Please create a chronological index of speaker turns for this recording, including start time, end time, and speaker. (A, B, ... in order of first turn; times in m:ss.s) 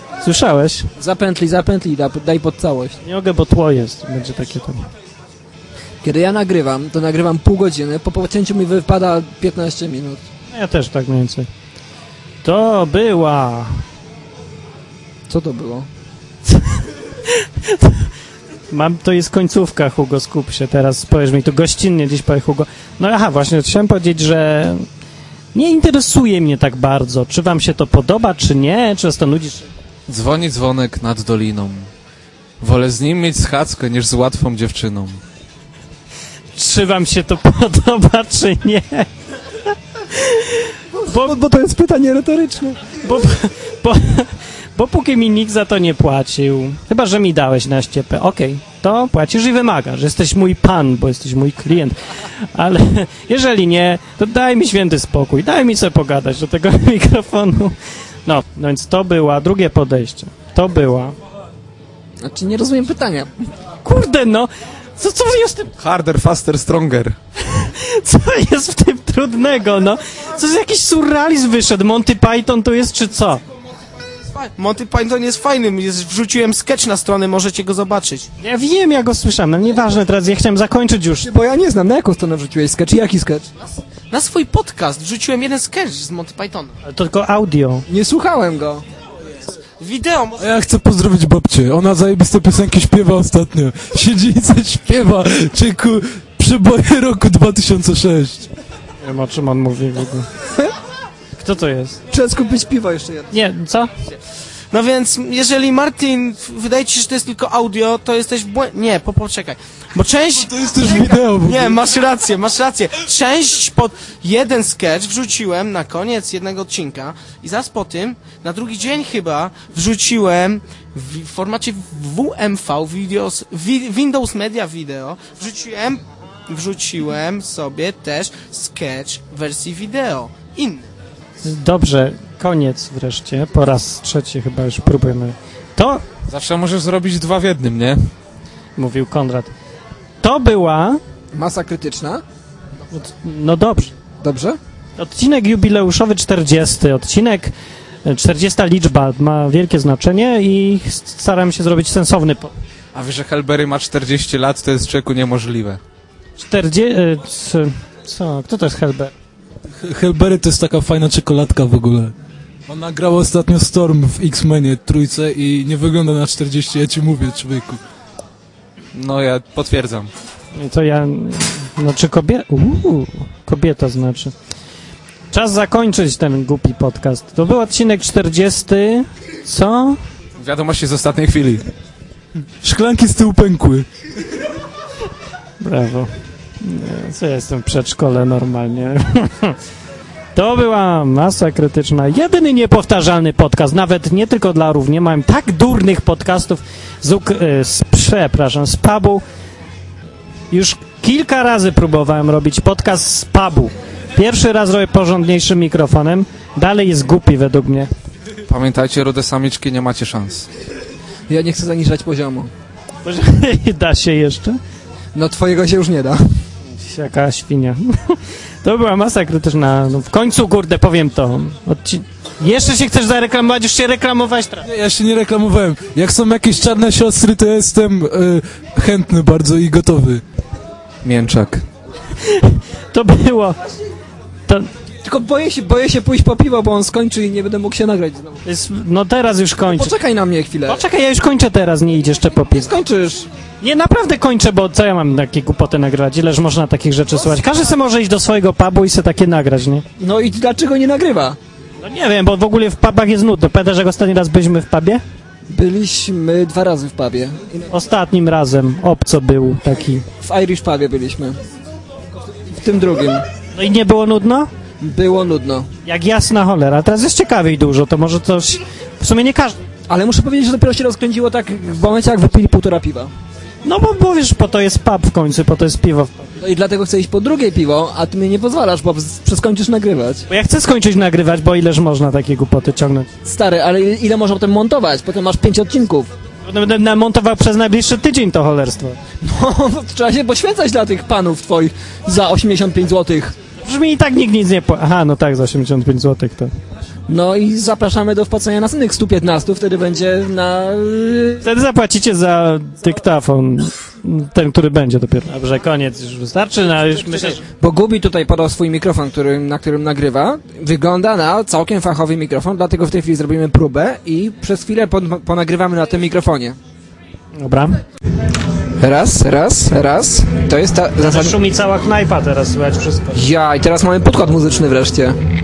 0:00.2-0:00.9 A
0:01.0-0:03.0 B
0:03.0-0:04.8 A
0:06.0-0:10.2 B
0:10.5-0:11.5 A
0:12.4-0:13.8 A
0:15.3-0:15.9 B
0:16.5-0:18.0 A
0:18.7-0:24.9 A
0:25.5-0:29.7 A
0:30.1-0:31.9 C
0:32.6-0:35.2 C
0:36.5-0:39.1 A
0:40.1-0:41.3 A
0:40.9-0:42.8 B
0:43.0-1:01.1 A
1:02.2-1:03.5 B
1:03.8-1:05.7 A
1:05.8-1:07.2 C
1:07.4-1:13.4 A
1:14.3-1:18.3 D
1:18.4-1:21.3 A
1:21.2-1:23.5 B
1:24.1-1:26.8 D
1:26.8-1:27.8 A
1:27.9-1:28.8 B
1:29.8-1:30.5 D
1:30.4-1:38.5 E
1:39.0-1:40.3 A
1:41.4-1:42.0 A
1:42.1-1:43.3 B
1:43.3-1:43.9 A
1:44.7-2:10.9 D
1:50.4-1:51.8 E
2:11.4-2:16.0 A
2:16.3-2:18.0 C
2:18.8-2:19.5 A
2:20.2-2:21.0 A
2:21.3-2:22.2 B
2:22.9-2:23.9 A
2:24.2-2:24.6 B
2:25.0-2:27.5 A
2:28.0-2:32.5 A
2:32.9-2:35.8 C
2:36.4-2:39.1 A
2:39.8-2:42.1 E
2:42.7-2:47.8 E
2:48.9-2:50.1 C
2:50.5-2:54.3 A
2:55.3-3:00.0 A
3:00.4-3:01.6 C
3:02.6-3:03.8 E
3:05.6-3:09.6 A
3:10.3-3:19.2 A
3:20.5-3:27.9 A
3:28.5-3:30.5 C
3:31.3-3:32.5 B
3:33.0-3:34.6 A
3:35.1-3:36.2 B
3:36.7-3:44.6 A
3:44.6-3:50.2 E
3:51.0-3:51.6 C
3:52.2-3:53.6 A
3:55.0-3:58.4 B
3:58.4-3:59.9 A
3:59.6-4:00.8 B
4:00.7-4:02.7 A
4:02.5-4:03.3 B
4:03.6-4:09.8 A
4:10.0-4:11.4 B
4:11.8-4:15.0 A
4:15.5-4:17.7 B
4:17.7-4:20.0 A
4:20.2-4:21.4 B
4:22.3-4:23.2 B
4:23.5-4:24.5 A
4:24.8-4:25.7 B
4:25.8-4:29.6 A
4:29.9-4:33.1 B
4:33.6-4:36.4 A
4:36.4-4:40.2 B
4:40.3-4:43.1 A
4:43.2-4:46.1 B
4:46.4-4:49.0 A
4:49.2-4:53.3 B
4:53.6-4:56.5 A
4:57.1-5:01.4 B
5:01.4-5:07.4 A
5:06.9-5:16.6 B
5:17.3-5:17.8 A
5:18.8-5:21.4 B
5:21.0-5:23.2 A
5:23.1-5:25.2 B